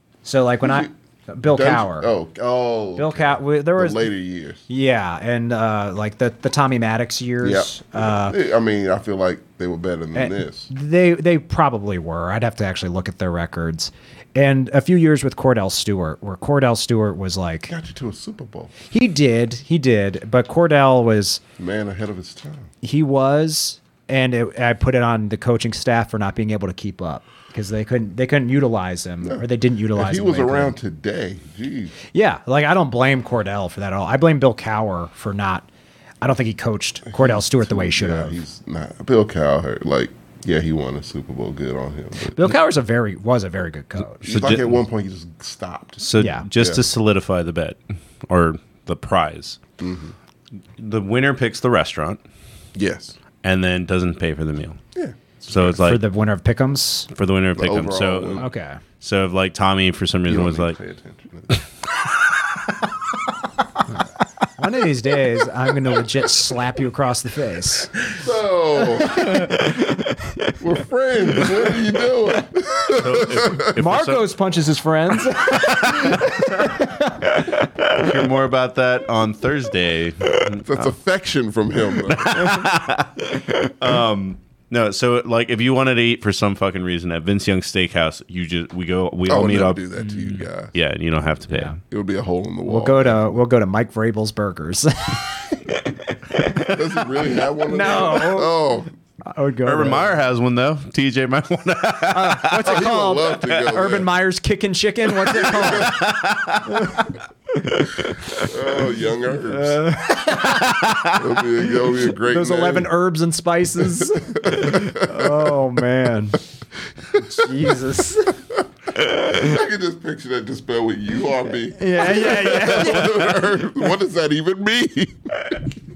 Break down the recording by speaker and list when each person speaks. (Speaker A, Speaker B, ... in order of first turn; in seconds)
Speaker A: 0.2-2.1, 3.0-4.1, 4.7-8.4, 10.1-17.7, 18.9-21.4, 22.8-30.7, 32.1-35.7, 36.2-38.4, 42.4-44.3, 46.2-46.5, 55.7-57.1, 58.4-58.8, 64.6-68.1, 68.9-70.6, 71.4-71.8, 73.8-78.1, 90.0-90.4, 91.5-91.8, 92.7-98.6, 99.2-100.2, 102.1-108.9, 109.4-116.4, 117.2-118.4, 119.1-119.4, 121.6-123.9
Speaker B: 0.6-0.9, 1.4-4.6, 7.4-10.7, 17.7-18.7, 21.6-22.7, 29.2-31.9, 37.1-42.5, 44.2-46.0, 46.6-46.8, 49.8-50.1, 52.7-53.1, 54.9-55.7, 57.6-58.5, 60.3-61.6, 68.1-69.5, 70.6-73.7, 80.6-82.6, 89.2-90.7, 91.9-93.3, 96.7-98.9, 102.6-104.1, 105.3-105.9, 108.4-109.8, 111.1-112.9, 114.0-115.5, 117.1-117.8, 119.0-125.6
Speaker C: 44.2-44.8, 46.0-49.6, 50.8-52.2, 53.4-54.8, 55.5-56.0, 57.1-58.4, 59.0-60.8, 72.9-74.2, 75.5-76.7, 77.8-80.9, 82.1-89.8, 90.7-91.7, 99.6-102.8, 105.2-107.0, 110.4-111.1